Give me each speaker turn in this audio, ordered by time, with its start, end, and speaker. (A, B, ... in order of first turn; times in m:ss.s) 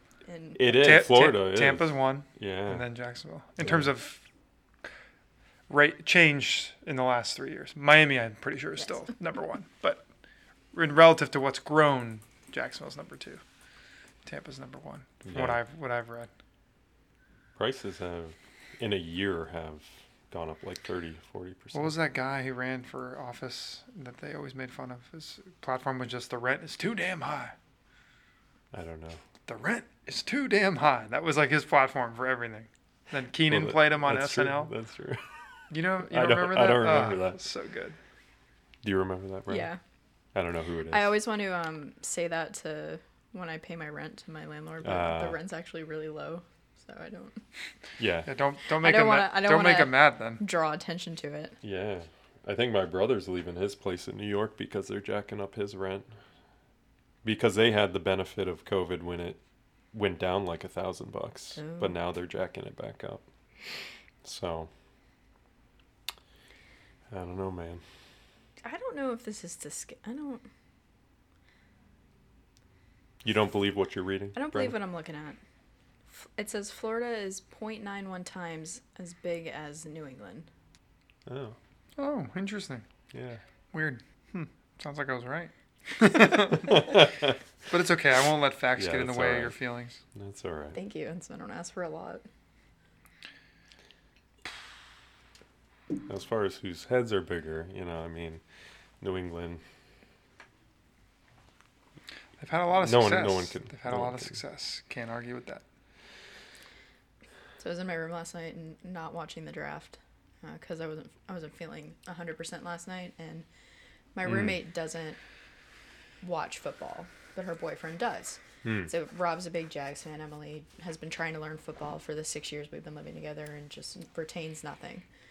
0:00.2-0:00.6 A
0:00.6-0:02.8 B
0:00.6-0:04.2 C
0:05.7-0:10.0 C
0:10.7-0:13.4 C
0:14.2-0:16.3 C
0:15.2-0:15.6 B
0:17.6-0:21.9 B
0:21.7-0:27.5 C
0:28.7-0:29.2 B
0:29.5-0:34.7 C
0:33.4-0:35.4 B
0:35.7-0:38.0 C
0:36.1-0:37.4 B
0:38.8-0:39.7 B
0:39.5-0:39.8 A
0:40.3-0:41.1 B
0:40.9-0:47.4 A
0:44.8-0:45.4 B
0:48.0-0:48.3 B
0:48.2-0:50.4 C
0:48.8-0:51.6 A
0:51.6-0:56.1 B
0:57.2-0:59.4 B
0:59.9-1:03.2 B
1:01.6-1:02.0 A
1:04.2-1:04.7 B
1:07.1-1:07.8 B
1:08.6-1:10.4 A
1:13.2-1:14.8 B
1:14.3-1:15.4 A
1:16.1-1:20.5 A
1:21.3-1:21.6 B
1:22.0-1:22.8 C
1:23.1-1:23.4 B
1:23.7-1:27.0 C
1:27.7-1:30.0 C
1:28.8-1:29.6 B
1:30.1-1:30.8 B
1:30.7-1:32.2 A
1:36.1-1:38.4 B
1:39.0-1:39.6 B
1:42.4-1:45.6 C
1:42.7-1:44.4 B
1:47.6-1:53.4 A
1:54.1-1:55.2 A
1:54.2-1:54.6 B
1:56.2-2:05.0 A
1:58.6-1:58.9 B